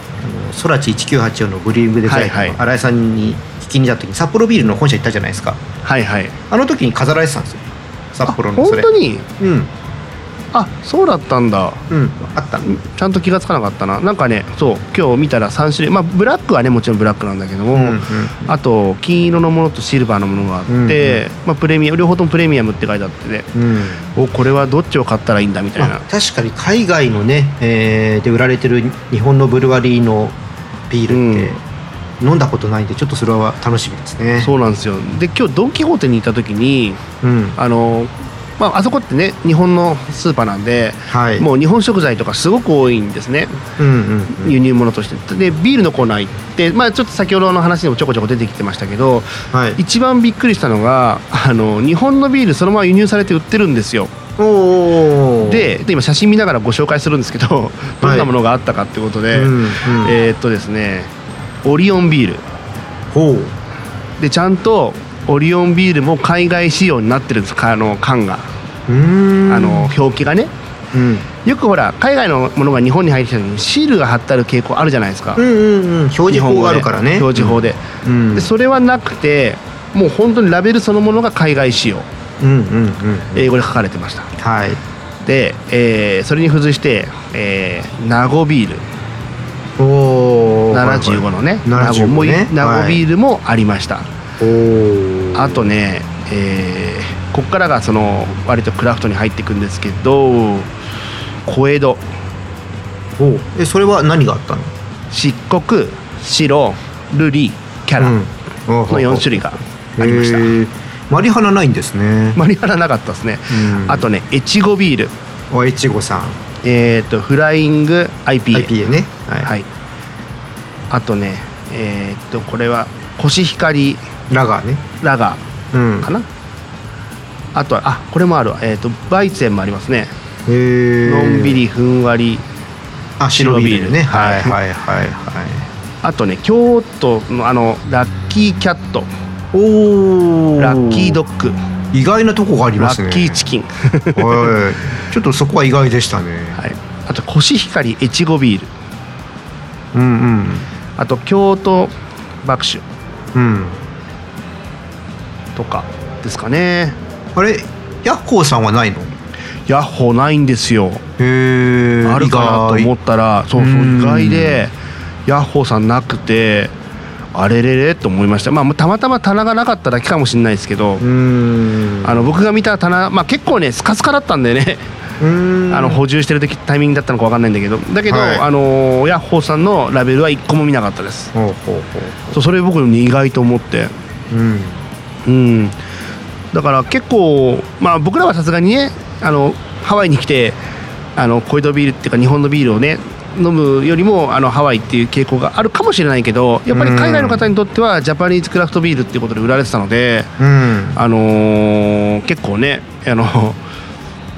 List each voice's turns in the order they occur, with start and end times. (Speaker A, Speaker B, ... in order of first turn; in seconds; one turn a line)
Speaker A: 0.2-5.6
Speaker B: 2.1-2.6
Speaker B: 5.8-6.4
Speaker A: 6.5-9.7
Speaker B: 8.3-9.3
Speaker B: 10.5-11.8
Speaker A: 11.9-12.8
Speaker B: 12.7-23.5
Speaker A: 17.7-18.5
Speaker A: 20.7-21.2
Speaker A: 23.5-24.0
Speaker B: 24.1-26.0
Speaker A: 25.8-30.4
Speaker A: 30.9-31.6
Speaker B: 31.1-31.5
Speaker A: 32.2-34.5
Speaker B: 34.4-37.0
Speaker A: 37.2-37.6
Speaker B: 37.6-43.6
Speaker A: 41.1-41.5
Speaker A: 43.8-44.6
Speaker B: 44.3-54.1
Speaker A: 49.5-49.8
Speaker A: 54.4-55.7
Speaker B: 55.4-61.1
Speaker A: 58.0-58.3
Speaker A: 59.3-60.2
Speaker B: 61.6-62.4
Speaker A: 63.1-63.5
Speaker B: 64.2-68.5
Speaker A: 68.9-69.9
Speaker B: 69.5-70.5
Speaker A: 70.9-71.3
Speaker B: 71.5-75.4
Speaker A: 75.4-78.5
Speaker B: 76.3-77.8
Speaker B: 78.3-82.1
Speaker A: 82.4-83.5
Speaker B: 83.3-84.3
Speaker A: 84.4-84.8
Speaker B: 85.2-88.8
Speaker A: 89.8-93.0
Speaker B: 90.7-94.1
Speaker A: 94.4-95.7
Speaker B: 95.3-100.7
Speaker B: 101.5-102.0
Speaker A: 103.2-104.7
Speaker B: 105.1-108.2
Speaker A: 108.0-112.4
Speaker B: 108.9-110.5
Speaker B: 112.4-115.1
Speaker A: 113.5-114.1
Speaker A: 115.5-116.4
Speaker B: 116.6-118.7
Speaker A: 118.5-119.5
Speaker B: 119.3-119.7
Speaker B: 120.9-124.0
Speaker A: 124.3-124.8
Speaker B: 125.0-125.4
Speaker A: 125.7-126.1
Speaker B: 126.0-126.3
Speaker B: 127.5-130.1
Speaker A: 130.5-131.6
Speaker B: 131.0-132.4
Speaker A: 133.2-135.7
Speaker B: 133.3-134.6
Speaker B: 136.0-139.1
Speaker A: 139.5-141.2
Speaker B: 140.6-141.6
Speaker A: 141.9-143.4
Speaker B: 142.8-144.5
Speaker A: 144.2-146.6
Speaker B: 146.6-148.7
Speaker A: 149.9-150.7
Speaker B: 151.0-151.9
Speaker B: 152.4-152.8
Speaker A: 153.3-153.8
Speaker B: 155.6-157.0
Speaker A: 157.3-159.1
Speaker B: 159.7-161.0
Speaker A: 161.2-162.9
Speaker B: 162.1-164.7
Speaker A: 163.6-164.7
Speaker B: 165.3-166.7
Speaker B: 167.3-171.0
Speaker A: 171.0-172.3
Speaker B: 172.0-174.8
Speaker A: 175.2-176.0
Speaker B: 175.7-181.3
Speaker A: 178.1-178.4
Speaker A: 181.3-182.4
Speaker B: 182.3-183.9
Speaker A: 184.3-184.8
Speaker B: 185.3-185.8
Speaker B: 186.5-190.6
Speaker B: 191.2-200.3
Speaker A: 196.7-197.5
Speaker A: 200.4-201.0
Speaker B: 200.9-203.6